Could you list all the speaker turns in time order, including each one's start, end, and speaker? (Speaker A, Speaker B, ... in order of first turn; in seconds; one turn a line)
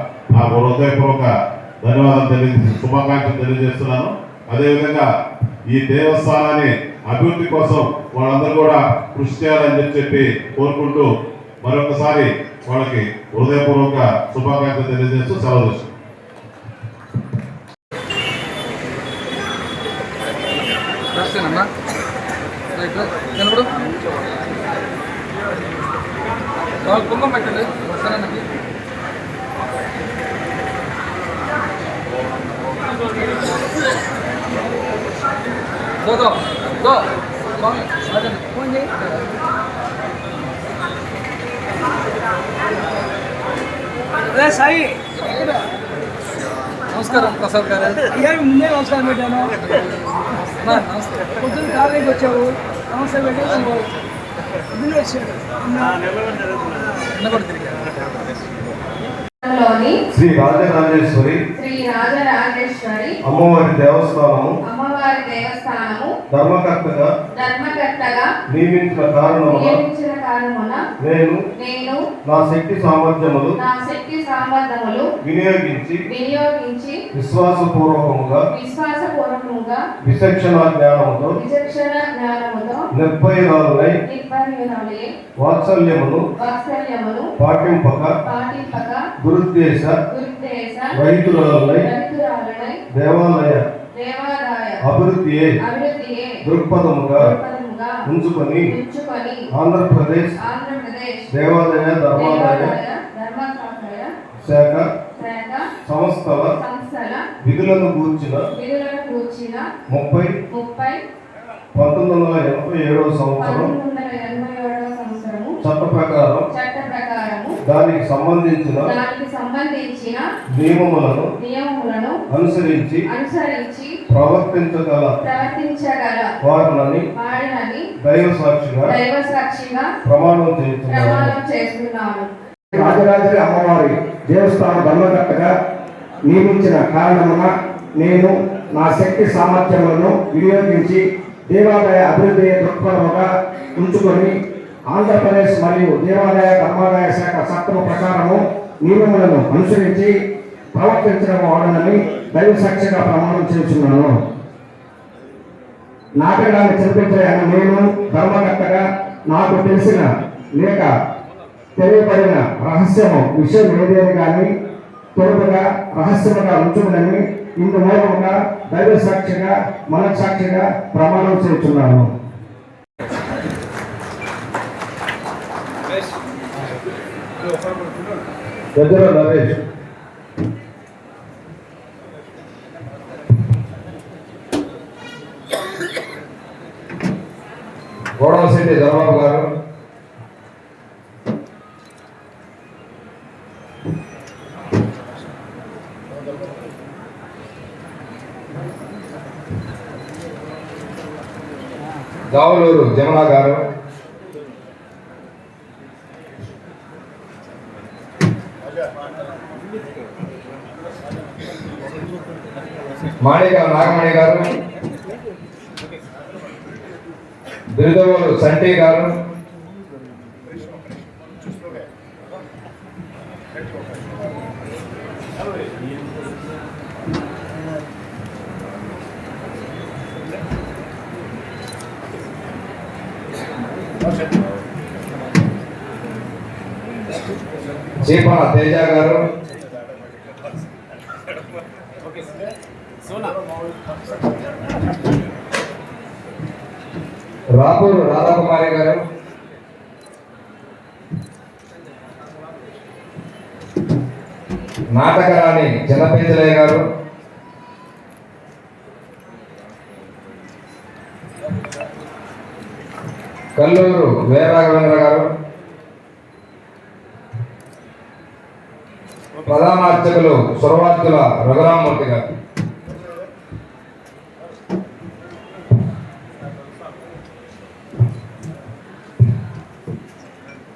Speaker A: 0.3-1.3
Speaker A: 1.8-5.1
Speaker A: 5.7-11.1
Speaker A: 11.6-15.9
Speaker B: 21.3-21.6
Speaker B: 22.8-23.6
Speaker B: 27.0-28.2
Speaker B: 37.9-38.9
Speaker B: 44.3-45.5
Speaker B: 47.0-49.6
Speaker B: 50.5-53.9
Speaker B: 54.7-56.0
Speaker B: 57.1-57.6
Speaker C: 59.4-59.9
Speaker D: 60.1-61.4
Speaker C: 61.6-63.1
Speaker D: 63.3-64.6
Speaker C: 64.7-66.1
Speaker D: 66.3-67.1
Speaker C: 67.3-68.3
Speaker D: 68.5-69.8
Speaker C: 69.5-70.8
Speaker D: 71.0-71.4
Speaker C: 71.6-72.0
Speaker D: 72.2-73.5
Speaker C: 73.6-75.0
Speaker D: 75.2-76.0
Speaker C: 76.1-76.9
Speaker D: 77.1-78.4
Speaker C: 78.5-79.8
Speaker D: 80.0-81.4
Speaker C: 81.4-82.8
Speaker D: 83.0-83.9
Speaker C: 84.1-85.0
Speaker D: 85.4-86.2
Speaker C: 86.4-87.3
Speaker D: 87.4-88.2
Speaker C: 88.2-89.0
Speaker D: 89.2-89.9
Speaker C: 90.1-92.8
Speaker D: 90.9-91.9
Speaker D: 92.9-93.6
Speaker C: 93.9-94.7
Speaker D: 94.8-95.5
Speaker C: 95.7-96.3
Speaker D: 96.5-97.3
Speaker C: 97.2-98.0
Speaker D: 98.1-98.7
Speaker C: 98.7-99.4
Speaker D: 99.5-100.3
Speaker C: 100.4-101.2
Speaker D: 101.3-102.8
Speaker C: 102.1-104.1
Speaker D: 104.4-104.8
Speaker C: 105.2-105.7
Speaker D: 105.8-106.5
Speaker C: 106.6-107.2
Speaker D: 107.4-108.4
Speaker C: 108.6-109.6
Speaker D: 109.9-110.3
Speaker C: 110.5-111.0
Speaker D: 111.7-113.7
Speaker C: 113.4-115.5
Speaker D: 115.6-116.4
Speaker C: 116.5-117.5
Speaker D: 117.7-118.9
Speaker C: 118.8-120.2
Speaker D: 120.5-121.3
Speaker C: 121.4-122.1
Speaker D: 122.3-123.0
Speaker C: 123.1-123.9
Speaker D: 124.1-125.1
Speaker C: 125.2-126.3
Speaker D: 126.4-127.0
Speaker C: 127.2-127.8
Speaker D: 128.0-128.9
Speaker C: 128.9-129.9
Speaker D: 130.1-131.3
Speaker C: 130.9-132.3
Speaker E: 132.7-135.5
Speaker E: 136.3-144.3
Speaker E: 144.9-150.1
Speaker E: 150.7-154.1
Speaker E: 156.2-160.0
Speaker E: 160.6-160.9
Speaker E: 161.8-164.5
Speaker E: 165.2-172.1
Speaker D: 178.7-179.6
Speaker F: 188.2-189.5
Speaker F: 202.3-203.6
Speaker F: 213.2-214.5
Speaker F: 217.7-219.2
Speaker F: 238.0-239.2
Speaker F: 247.5-249.0
Speaker F: 254.9-256.8
Speaker F: 263.6-265.3
Speaker F: 269.4-272.2